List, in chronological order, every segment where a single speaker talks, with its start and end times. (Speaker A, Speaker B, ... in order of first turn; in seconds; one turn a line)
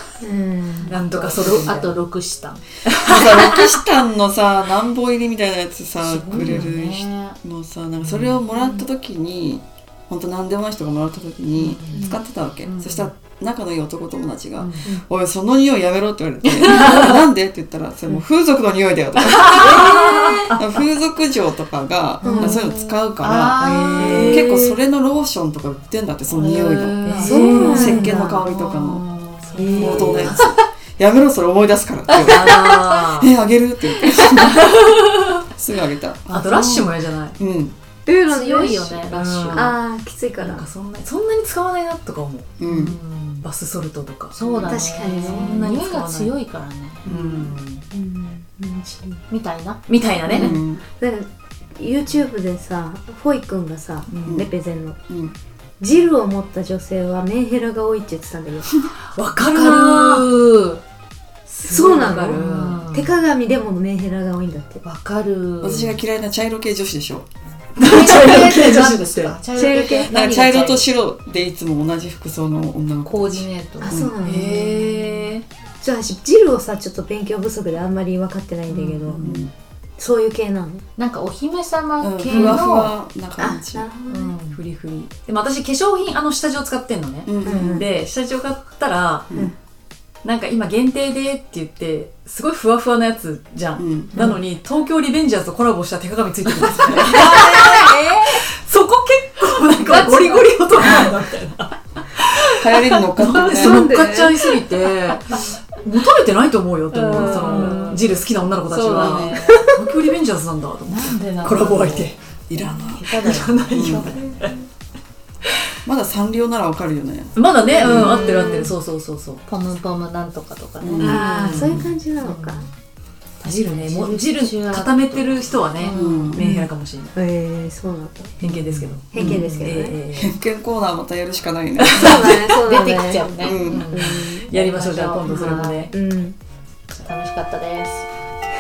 Speaker A: 0.2-1.0
Speaker B: 0.9-2.0
Speaker C: 0.9-2.6
Speaker B: 2.9-3.8
Speaker D: 3.1-29.1
Speaker C: 6.0-7.4
Speaker B: 6.4-6.7
Speaker B: 8.0-8.4
Speaker B: 11.6-12.0
Speaker A: 11.9-12.2
Speaker B: 12.6-13.1
Speaker B: 14.6-14.9
Speaker B: 16.6-17.1
Speaker B: 19.3-20.6
Speaker C: 19.5-20.1
Speaker A: 22.2-22.6
Speaker B: 22.2-22.7
Speaker C: 23.2-24.4
Speaker B: 23.6-24.7
Speaker A: 24.0-24.4
Speaker C: 26.3-27.9
Speaker B: 27.0-30.4
Speaker A: 27.2-28.4
Speaker C: 29.4-30.6
Speaker A: 29.6-30.4
Speaker D: 29.7-34.8
Speaker B: 32.1-33.3
Speaker B: 34.0-35.3
Speaker D: 35.5-36.3
Speaker C: 36.3-37.0
Speaker B: 36.3-37.4
Speaker D: 37.4-37.8
Speaker A: 38.1-40.7
Speaker C: 38.3-39.8
Speaker B: 39.1-39.8
Speaker B: 40.4-42.5
Speaker D: 42.6-43.0
Speaker C: 42.6-43.4
Speaker B: 43.4-44.4
Speaker C: 44.3-47.1
Speaker D: 44.5-44.7
Speaker A: 44.6-45.7
Speaker B: 45.2-46.3
Speaker B: 47.0-47.9
Speaker D: 47.1-47.5
Speaker A: 47.9-49.2
Speaker C: 49.3-49.8
Speaker B: 49.9-50.6
Speaker A: 50.3-55.0
Speaker D: 50.3-50.8
Speaker D: 54.3-54.5
Speaker D: 55.1-55.4
Speaker A: 55.8-58.8
Speaker B: 59.1-60.5
Speaker C: 59.4-60.8
Speaker B: 61.5-62.9
Speaker A: 61.6-64.8
Speaker C: 61.8-63.1
Speaker C: 64.8-66.0
Speaker D: 65.6-67.2
Speaker B: 67.8-69.4
Speaker C: 67.8-70.9
Speaker A: 69.5-70.4
Speaker D: 70.1-74.1
Speaker C: 73.0-74.0
Speaker A: 73.8-79.4
Speaker B: 74.2-75.5
Speaker B: 78.7-79.5
Speaker D: 79.2-79.5
Speaker A: 80.0-80.8
Speaker C: 81.0-83.0
Speaker D: 82.0-83.9
Speaker B: 82.3-82.7
Speaker A: 83.4-84.4
Speaker C: 84.1-84.6
Speaker B: 84.5-89.4
Speaker D: 87.3-87.9
Speaker A: 87.4-87.9
Speaker B: 90.2-112.2
Speaker D: 93.8-94.2
Speaker A: 96.6-98.4
Speaker A: 99.8-101.1
Speaker D: 102.5-104.0
Speaker A: 103.2-105.6
Speaker C: 106.9-108.0
Speaker A: 107.1-107.8
Speaker C: 108.7-109.6
Speaker D: 108.9-109.4
Speaker A: 109.4-109.7
Speaker C: 110.9-114.2
Speaker D: 112.5-113.1
Speaker B: 113.2-114.6
Speaker D: 113.7-114.2
Speaker A: 114.2-114.5
Speaker D: 115.9-118.3
Speaker B: 117.3-119.4
Speaker A: 117.7-118.7
Speaker C: 117.8-118.6
Speaker C: 119.5-121.2
Speaker D: 120.8-121.9
Speaker B: 121.0-121.8
Speaker A: 121.0-122.7
Speaker C: 122.2-122.7
Speaker C: 123.4-126.4
Speaker B: 123.4-127.1
Speaker D: 125.9-126.5
Speaker A: 126.4-128.4
Speaker B: 128.4-130.3
Speaker D: 128.4-132.4
Speaker A: 129.1-130.0
Speaker A: 131.9-134.5
Speaker C: 132.0-135.9
Speaker B: 132.1-132.3
Speaker D: 133.4-133.9
Speaker B: 133.7-135.9
Speaker A: 135.3-136.4
Speaker C: 136.9-138.1